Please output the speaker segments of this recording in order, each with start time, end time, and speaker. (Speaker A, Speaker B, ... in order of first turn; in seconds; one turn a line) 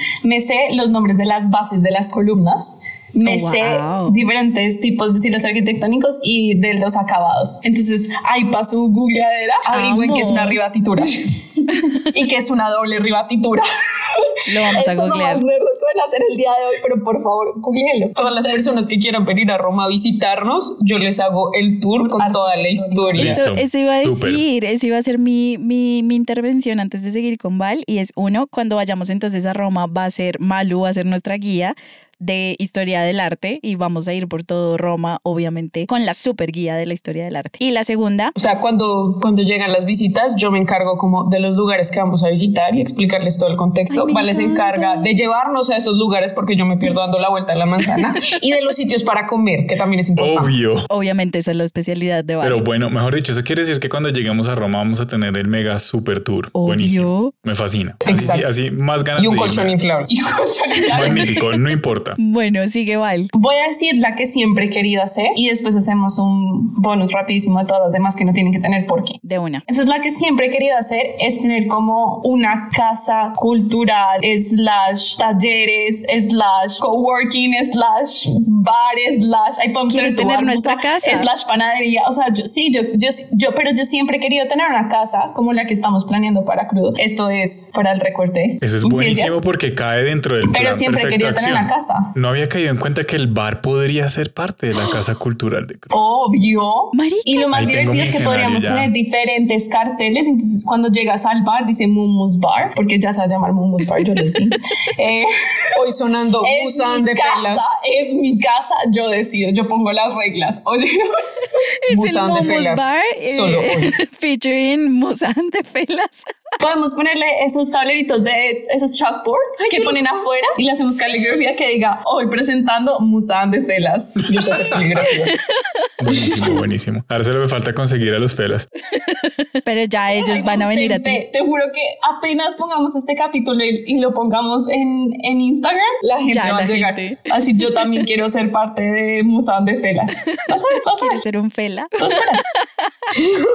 Speaker A: 0.2-18.8
Speaker B: 3.2-4.2
Speaker B: 9.7-10.6
Speaker B: 14.5-15.4
Speaker C: 18.2-23.4
Speaker A: 22.0-23.3
Speaker D: 23.2-24.4
Speaker B: 23.2-38.3
Speaker C: 38.4-50.5
Speaker B: 43.9-45.1
Speaker D: 50.2-50.9
Speaker B: 50.9-52.6
Speaker D: 52.4-59.8
Speaker B: 56.5-57.3
Speaker C: 58.0-58.5
Speaker C: 59.2-60.1
Speaker A: 60.1-61.4
Speaker D: 60.9-62.2
Speaker B: 62.2-63.3
Speaker A: 63.3-89.4
Speaker B: 69.2-69.6
Speaker B: 79.9-81.3
Speaker D: 88.6-95.9
Speaker A: 90.5-92.1
Speaker A: 95.9-105.7
Speaker B: 96.9-98.2
Speaker D: 97.5-98.9
Speaker C: 105.8-107.8
Speaker A: 106.4-111.5
Speaker B: 111.8-116.3
Speaker C: 111.9-113.9
Speaker A: 116.6-124.3
Speaker C: 124.3-125.3
Speaker D: 126.0-128.7
Speaker B: 128.9-131.2
Speaker A: 130.2-141.2
Speaker B: 136.3-138.0
Speaker B: 140.9-142.9
Speaker A: 142.0-142.4